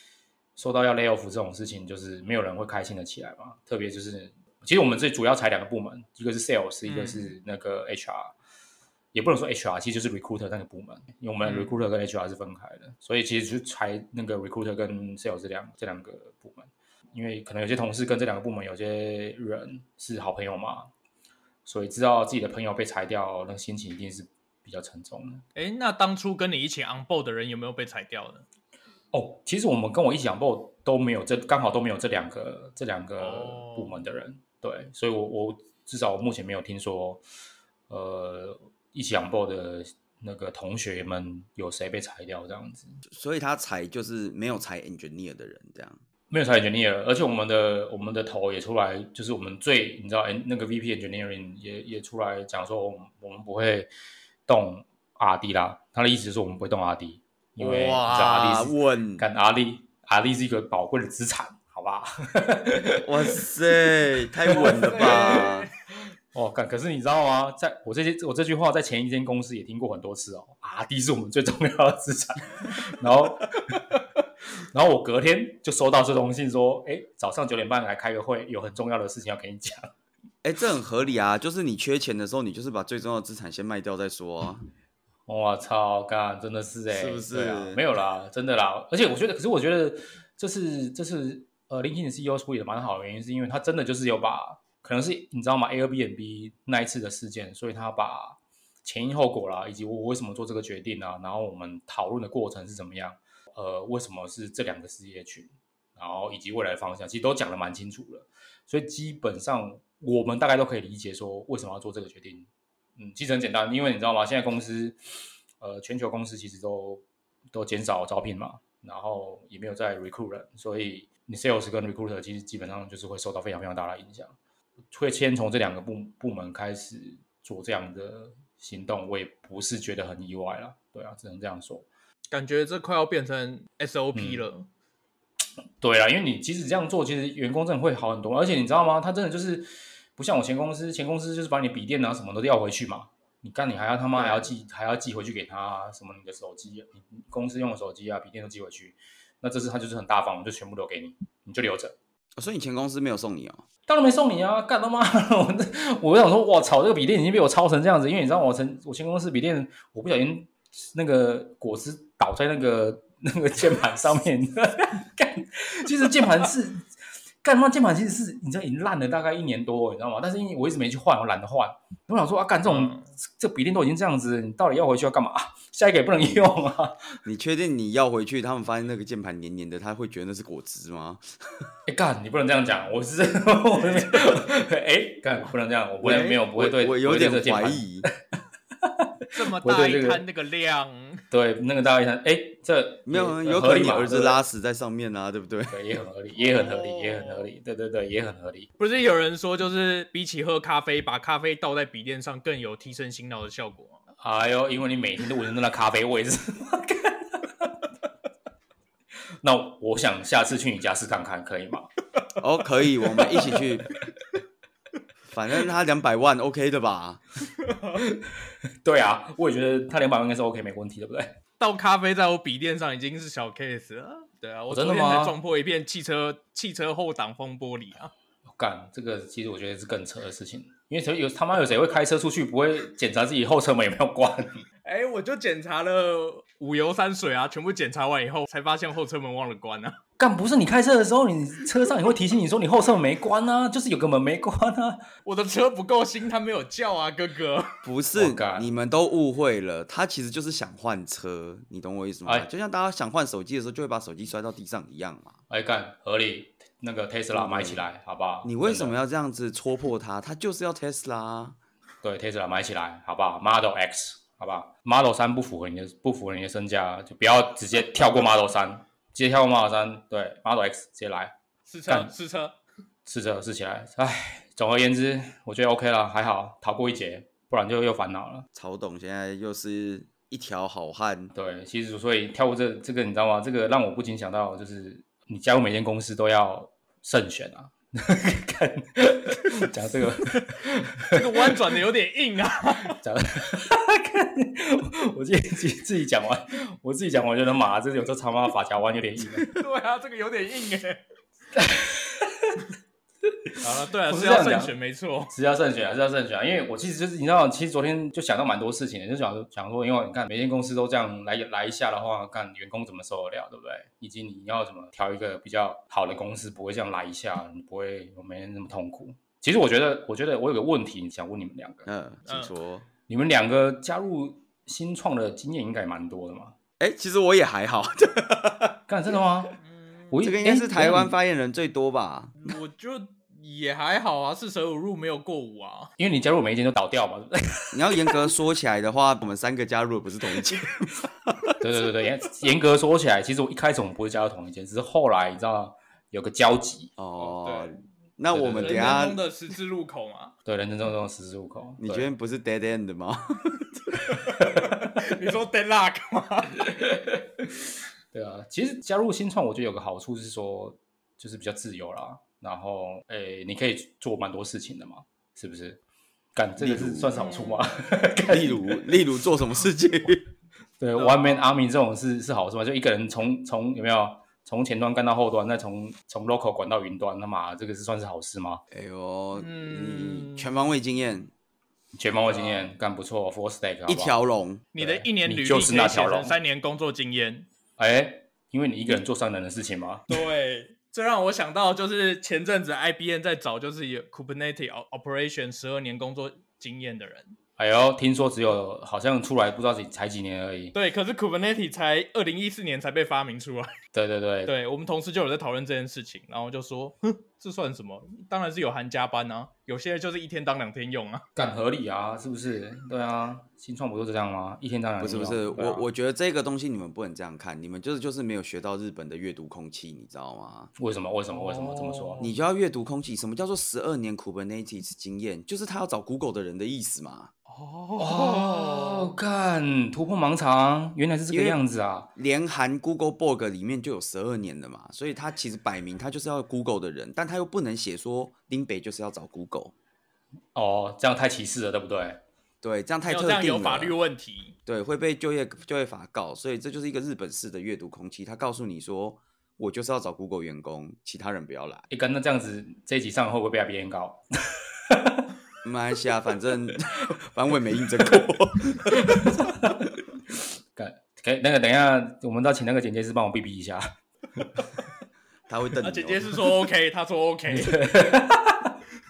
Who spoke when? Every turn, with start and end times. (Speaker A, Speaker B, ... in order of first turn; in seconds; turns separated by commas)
Speaker A: 0.6-8.3, Speaker B: 6.9-7.3, Speaker A: 9.1-20.9, Speaker B: 11.4-11.8, Speaker A: 21.7-25.4, Speaker B: 25.6-28.4, Speaker A: 29.1-37.2, Speaker B: 33.2-34.0, Speaker A: 37.9-43.0, Speaker C: 43.1-46.0, Speaker A: 46.3-53.9, Speaker A: 54.5-63.5, Speaker C: 57.6-59.3, Speaker C: 62.8-65.7, Speaker B: 64.5-65.9, Speaker A: 64.6-65.4, Speaker A: 66.3-73.8, Speaker A: 74.7-79.9, Speaker C: 80.4-84.7, Speaker A: 85.3-115.0, Speaker C: 86.9-87.8, Speaker A: 115.6-117.0, Speaker A: 117.5-124.3, Speaker A: 124.9-131.9, Speaker B: 132.3-134.7, Speaker A: 134.1-134.4, Speaker A: 135.8-152.0, Speaker C: 152.4-153.6, Speaker A: 153.9-166.9, Speaker A: 167.4-177.2, Speaker B: 172.7-173.1, Speaker C: 177.2-181.7, Speaker A: 181.9-188.1, Speaker C: 186.0-188.1, Speaker A: 188.8-190.2, Speaker B: 189.3-191.2, Speaker A: 191.3-194.4, Speaker C: 193.1-195.8, Speaker A: 195.7-198.7, Speaker B: 196.4-197.4, Speaker B: 198.8-204.0, Speaker A: 204.2-207.7, Speaker A: 209.4-211.9, Speaker C: 212.4-214.0, Speaker B: 213.2-213.6, Speaker C: 215.3-217.2, Speaker B: 217.6-218.0, Speaker A: 218.0-221.4, Speaker B: 221.6-228.1, Speaker A: 224.7-225.4, Speaker A: 228.5-234.7, Speaker B: 234.8-240.0, Speaker A: 240.2-245.1, Speaker B: 245.2-247.8, Speaker C: 247.8-255.4, Speaker A: 248.2-248.7, Speaker A: 255.5-258.9, Speaker C: 257.3-257.9, Speaker C: 258.4-261.6, Speaker A: 262.0-271.4, Speaker B: 271.7-272.6, Speaker A: 271.9-272.1, Speaker A: 273.1-278.5, Speaker C: 278.5-281.3, Speaker A: 281.3-291.7, Speaker B: 291.1-293.0, Speaker A: 292.9-299.6, Speaker B: 299.4-301.0, Speaker A: 301.5-302.6, Speaker A: 303.3-304.7, Speaker B: 303.6-305.3, Speaker A: 305.3-321.9, Speaker C: 321.9-322.9, Speaker B: 322.3-322.5, Speaker A: 323.1-326.6, Speaker C: 326.8-328.8, Speaker A: 328.9-329.6, Speaker B: 329.6-330.2, Speaker A: 330.1-331.1, Speaker C: 330.2-332.6, Speaker B: 332.4-335.9, Speaker A: 336.0-338.3, Speaker C: 337.7-341.6, Speaker A: 341.6-346.9, Speaker C: 347.0-349.2, Speaker B: 347.2-347.8, Speaker A: 348.3-349.0, Speaker B: 348.5-350.3, Speaker A: 350.4-352.1, Speaker C: 351.8-354.0, Speaker B: 354.3-356.8, Speaker A: 354.4-354.8, Speaker A: 356.8-357.5, Speaker A: 358.1-365.8, Speaker A: 366.4-368.9, Speaker C: 366.6-367.1, Speaker B: 367.1-367.7, Speaker C: 368.3-370.2, Speaker A: 370.8-378.6, Speaker B: 371.0-371.4, Speaker C: 378.7-381.3, Speaker B: 379.4-380.5, Speaker A: 381.9-384.2, Speaker B: 382.3-382.7, Speaker C: 383.9-384.7, Speaker B: 384.7-387.5, Speaker A: 384.8-386.4, Speaker A: 387.8-390.2, Speaker B: 390.1-397.4, Speaker A: 397.6-400.8, Speaker B: 400.7-403.8, Speaker A: 403.9-404.5, Speaker B: 404.5-411.3, Speaker A: 411.4-415.9, Speaker C: 415.0-420.7, Speaker A: 420.8-422.2, Speaker B: 421.3-422.4, Speaker C: 422.2-427.3, Speaker B: 427.5-429.1, Speaker A: 428.0-432.1, Speaker C: 431.3-431.6, Speaker C: 432.2-439.7, Speaker A: 440.6-442.2, Speaker C: 442.6-444.0, Speaker B: 443.1-444.6, Speaker C: 444.7-451.9, Speaker A: 451.9-455.3, Speaker C: 455.6-459.3, Speaker A: 458.9-459.9, Speaker A: 460.8-463.9, Speaker C: 465.5-466.7, Speaker B: 465.8-467.8, Speaker A: 467.5-468.8